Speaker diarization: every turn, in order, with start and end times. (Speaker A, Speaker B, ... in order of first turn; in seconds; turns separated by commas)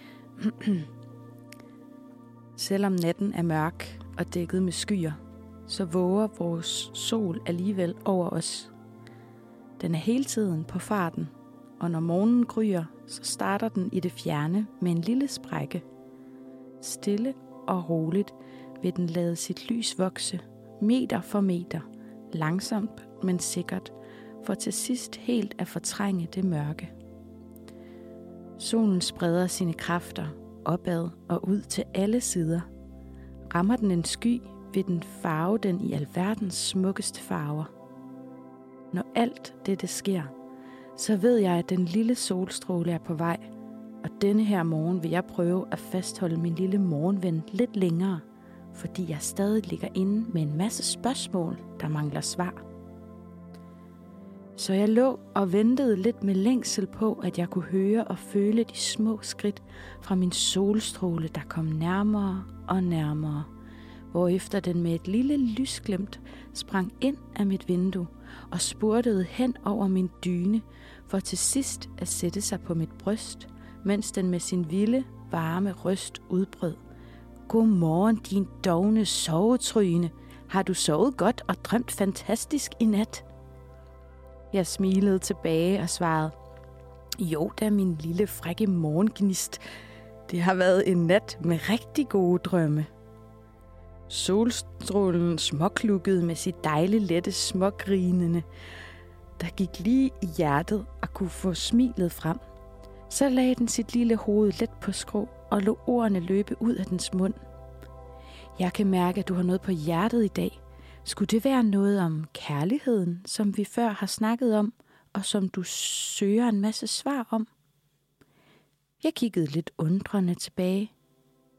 Speaker A: 0.4-0.9, Speaker A: 2.6-8.7, Speaker A: 9.8-15.8, Speaker A: 16.8-26.9, Speaker A: 28.6-32.7, Speaker A: 33.5-37.7, Speaker A: 38.9-40.3, Speaker A: 41.0-43.5, Speaker A: 44.0-52.6, Speaker A: 54.6-63.5, Speaker A: 64.1-76.8, Speaker A: 77.5-83.2, Speaker A: 84.5-86.3, Speaker A: 87.2-89.6, Speaker A: 90.3-92.9, Speaker A: 94.1-98.5, Speaker A: 99.4-102.4, Speaker A: 103.1-107.4, Speaker A: 108.6-117.5, Speaker A: 119.0-120.9